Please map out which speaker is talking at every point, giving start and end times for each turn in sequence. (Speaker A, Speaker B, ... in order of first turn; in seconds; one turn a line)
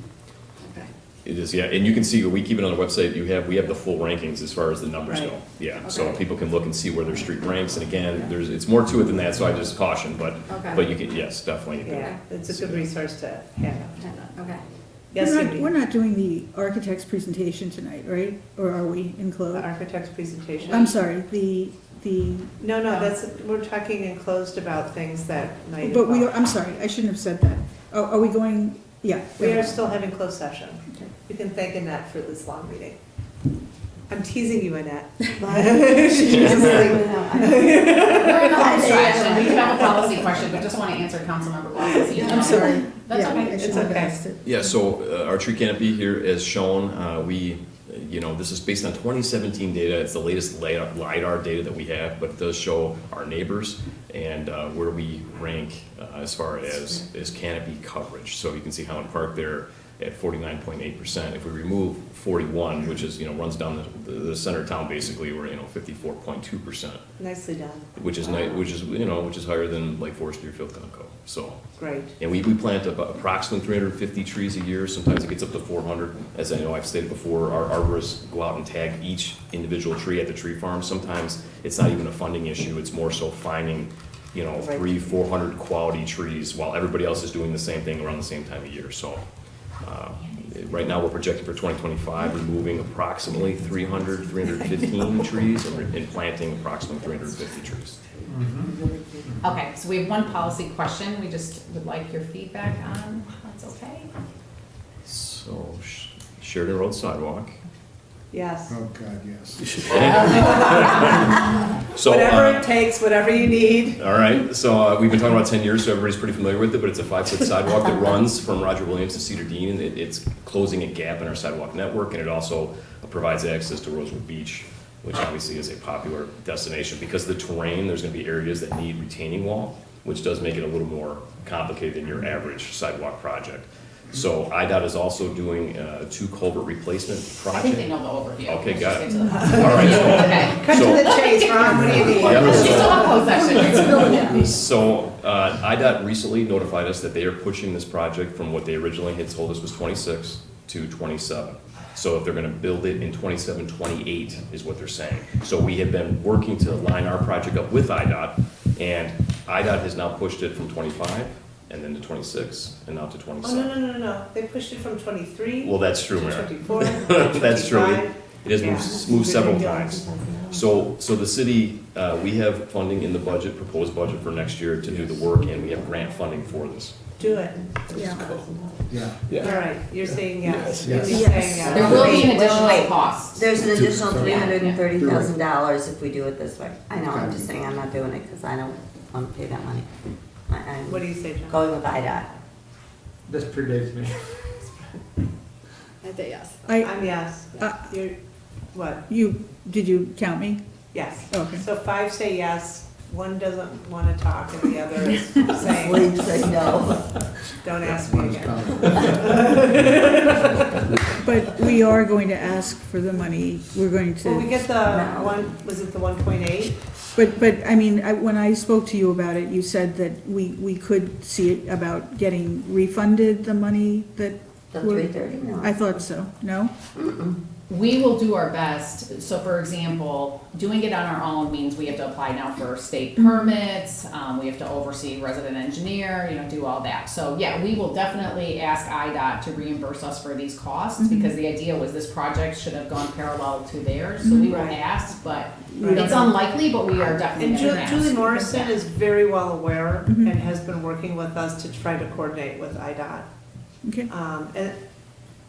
Speaker A: 0.6-0.9
Speaker B: 1.2-12.8
Speaker C: 5.1-5.4
Speaker A: 5.8-6.2
Speaker A: 10.5-10.8
Speaker C: 11.8-14.0
Speaker A: 14.0-14.6
Speaker C: 15.1-15.7
Speaker D: 15.1-19.7
Speaker C: 19.5-21.0
Speaker D: 20.7-23.0
Speaker C: 22.6-26.4
Speaker D: 25.8-30.0
Speaker C: 29.4-33.0
Speaker C: 34.1-39.7
Speaker E: 35.3-40.5
Speaker F: 38.0-43.9
Speaker C: 41.8-42.6
Speaker D: 42.2-44.7
Speaker E: 42.2-42.9
Speaker C: 43.4-44.1
Speaker B: 44.4-67.0
Speaker C: 67.2-67.9
Speaker B: 68.0-71.6
Speaker C: 71.8-72.1
Speaker B: 72.2-89.2
Speaker C: 84.6-84.9
Speaker B: 89.8-98.0
Speaker F: 99.4-104.1
Speaker B: 105.0-107.5
Speaker C: 108.3-108.8
Speaker G: 108.7-109.8
Speaker B: 109.8-111.4
Speaker C: 110.1-111.1
Speaker B: 111.9-112.7
Speaker C: 112.0-114.0
Speaker B: 114.0-141.1
Speaker F: 137.5-144.3
Speaker C: 139.3-143.2
Speaker B: 141.9-163.7
Speaker G: 142.0-142.7
Speaker C: 163.4-169.7
Speaker B: 165.6-177.0
Speaker E: 168.7-170.7
Speaker E: 175.5-175.9
Speaker C: 177.2-177.6
Speaker E: 177.2-179.3
Speaker D: 177.9-178.2
Speaker G: 178.9-179.4
Speaker C: 179.3-182.3
Speaker B: 180.4-180.8
Speaker G: 180.8-182.2
Speaker E: 180.9-189.9
Speaker F: 181.7-184.8
Speaker G: 183.7-185.3
Speaker G: 187.1-187.4
Speaker E: 190.5-192.3
Speaker C: 190.8-191.6
Speaker A: 196.0-196.6
Speaker D: 196.7-198.0
Speaker C: 196.8-198.2
Speaker C: 198.7-199.0
Speaker D: 199.1-200.6
Speaker C: 200.9-206.5
Speaker D: 201.3-201.7
Speaker E: 205.7-207.2
Speaker C: 207.6-210.8
Speaker G: 207.8-210.3
Speaker D: 211.2-214.6
Speaker C: 214.2-216.7
Speaker E: 214.8-215.5
Speaker D: 217.1-226.7
Speaker E: 224.7-225.9
Speaker E: 227.0-227.3
Speaker F: 227.7-248.7
Speaker D: 241.0-241.4
Speaker D: 244.2-244.6
Speaker C: 244.5-244.8
Speaker D: 245.7-246.4
Speaker C: 245.8-246.3
Speaker C: 247.4-253.3
Speaker D: 247.5-248.5
Speaker D: 250.1-250.4
Speaker D: 253.8-254.1
Speaker C: 254.1-254.8